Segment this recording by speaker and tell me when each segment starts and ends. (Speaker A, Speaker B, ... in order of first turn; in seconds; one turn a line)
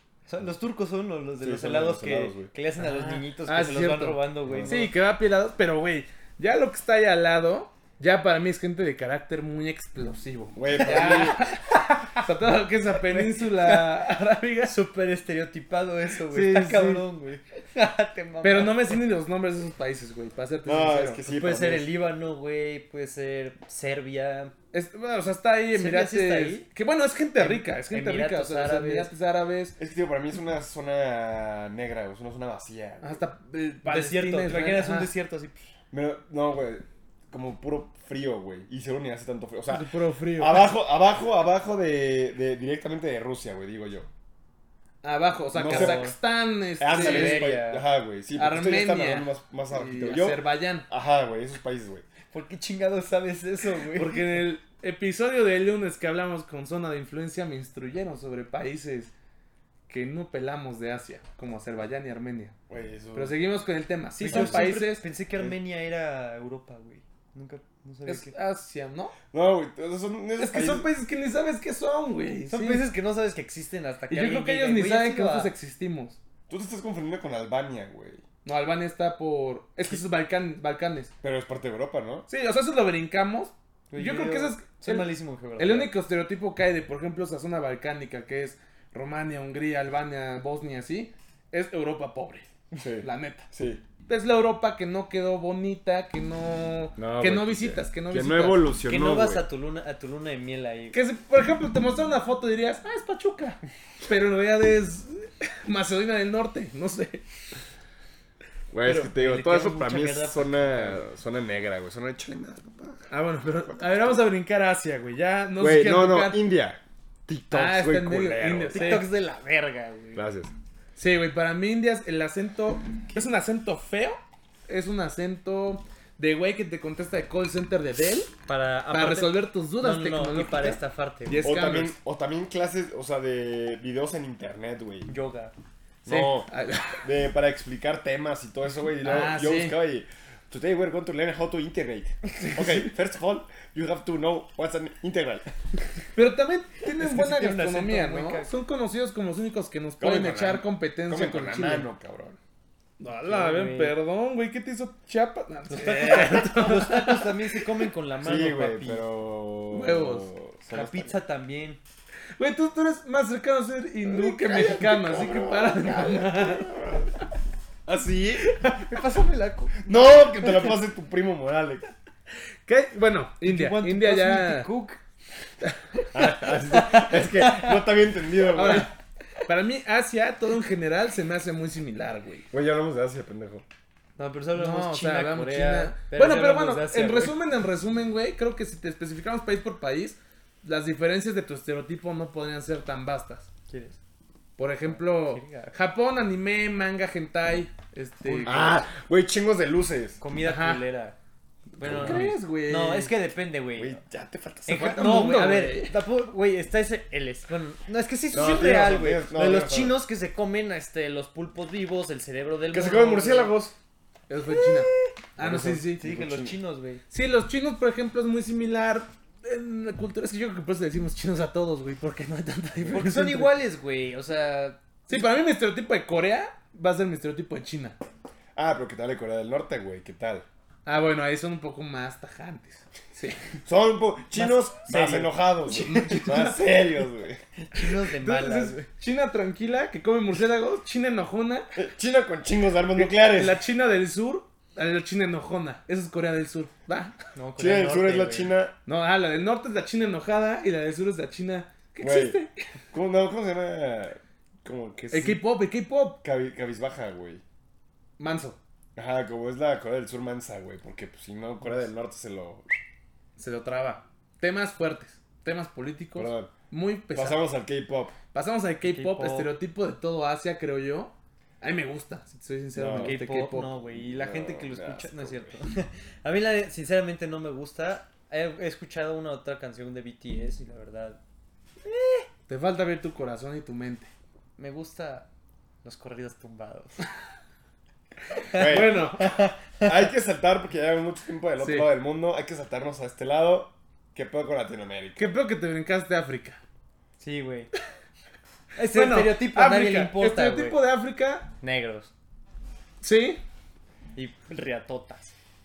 Speaker A: 0.3-4.9
Speaker B: 1.4-2.5
Speaker C: 2.8-14.7
Speaker B: 4.5-4.9
Speaker B: 10.6-11.5
Speaker A: 10.8-11.4
Speaker A: 13.0-14.0
Speaker A: 14.6-18.9
Speaker C: 16.3-17.1
Speaker C: 18.4-21.2
Speaker B: 20.6-21.9
Speaker A: 21.3-24.5
Speaker C: 24.7-29.8
Speaker A: 25.7-26.7
Speaker A: 27.4-29.1
Speaker B: 29.8-33.2
Speaker C: 33.0-35.1
Speaker A: 33.9-35.6
Speaker B: 35.9-44.1
Speaker C: 39.7-40.7
Speaker C: 45.0-47.6
Speaker B: 45.5-46.1
Speaker A: 45.6-46.1
Speaker B: 46.8-52.0
Speaker A: 46.9-47.8
Speaker C: 48.4-50.9
Speaker A: 52.3-54.2
Speaker C: 53.9-59.1
Speaker C: 59.9-62.5
Speaker B: 62.7-63.4
Speaker C: 63.1-65.0
Speaker A: 64.2-68.3
Speaker B: 64.2-64.8
Speaker C: 68.1-69.2
Speaker B: 69.3-70.9
Speaker C: 70.4-72.9
Speaker A: 72.5-75.5
Speaker C: 74.1-76.2
Speaker B: 76.5-78.2
Speaker C: 78.5-81.1
Speaker B: 81.2-82.3
Speaker C: 82.3-92.5
Speaker A: 83.9-85.9
Speaker B: 92.8-93.8
Speaker C: 93.0-93.5
Speaker C: 94.1-98.6
Speaker B: 97.0-99.5
Speaker A: 98.8-101.0
Speaker C: 100.9-107.2
Speaker B: 108.7-113.1
Speaker A: 108.9-111.0
Speaker C: 113.1-116.4
Speaker B: 115.6-119.0
Speaker C: 117.5-119.1
Speaker A: 118.7-120.2
Speaker B: 120.2-120.5
Speaker C: 121.0-128.3
Speaker A: 128.5-131.4
Speaker C: 128.9-131.9
Speaker B: 131.4-135.1
Speaker A: 135.1-135.5
Speaker B: 136.1-136.5
Speaker C: 136.1-137.1
Speaker B: 137.0-145.5
Speaker C: 139.0-139.8
Speaker C: 142.4-142.9
Speaker C: 146.2-151.9
Speaker A: 146.9-148.5
Speaker B: 150.0-152.4
Speaker C: 153.0-157.9
Speaker A: 153.2-153.9
Speaker A: 155.7-159.0
Speaker B: 158.2-161.1
Speaker C: 159.7-160.3
Speaker A: 160.7-161.8
Speaker C: 162.4-166.7
Speaker B: 164.1-167.1
Speaker B: 167.9-168.5
Speaker A: 168.6-169.9
Speaker B: 169.8-171.8
Speaker C: 172.7-174.7
Speaker A: 173.4-175.0
Speaker A: 176.0-177.8
Speaker B: 176.1-178.9
Speaker C: 178.5-178.9
Speaker C: 179.5-182.5
Speaker B: 182.5-183.7
Speaker A: 184.2-187.4
Speaker C: 184.5-193.5
Speaker A: 193.7-194.0
Speaker C: 194.6-198.8
Speaker A: 194.9-195.7
Speaker A: 198.2-198.8
Speaker B: 198.4-200.2
Speaker A: 200.2-201.2
Speaker C: 200.4-200.8
Speaker A: 201.8-204.0
Speaker B: 201.8-202.3
Speaker C: 201.8-203.1
Speaker B: 203.8-205.3
Speaker A: 204.7-213.6
Speaker C: 204.7-206.0
Speaker B: 208.3-210.1
Speaker B: 212.7-213.8
Speaker C: 214.3-216.0
Speaker A: 214.5-215.1
Speaker B: 215.4-216.6
Speaker A: 215.9-217.0
Speaker C: 217.1-223.5
Speaker A: 222.9-224.8
Speaker C: 225.1-228.0
Speaker B: 228.6-230.5
Speaker C: 230.9-233.4
Speaker B: 233.7-237.4
Speaker A: 234.3-236.3
Speaker C: 235.7-236.7
Speaker A: 237.6-238.9
Speaker C: 237.8-241.7
Speaker B: 241.8-243.6
Speaker C: 243.0-247.2
Speaker A: 247.3-248.5
Speaker B: 247.6-248.8
Speaker C: 248.9-252.6
Speaker B: 252.0-252.4
Speaker B: 252.9-255.4
Speaker C: 255.1-256.2
Speaker B: 256.2-257.4
Speaker C: 258.2-258.6
Speaker B: 259.0-262.8
Speaker C: 263.4-267.4
Speaker B: 266.1-266.5
Speaker B: 267.1-268.1
Speaker C: 268.3-273.7
Speaker A: 268.8-269.5
Speaker B: 272.8-273.2
Speaker A: 272.9-281.2
Speaker B: 273.9-275.6
Speaker A: 281.9-282.3
Speaker C: 282.5-284.1
Speaker A: 284.6-285.3
Speaker A: 285.8-287.0
Speaker C: 288.5-289.4
Speaker A: 288.5-289.7
Speaker B: 288.6-289.0
Speaker B: 289.8-295.3
Speaker C: 291.6-291.9
Speaker C: 295.2-296.6
Speaker A: 297.2-297.7
Speaker A: 298.8-300.8
Speaker C: 298.8-301.5
Speaker A: 301.6-302.1
Speaker C: 303.0-303.4
Speaker A: 304.2-305.4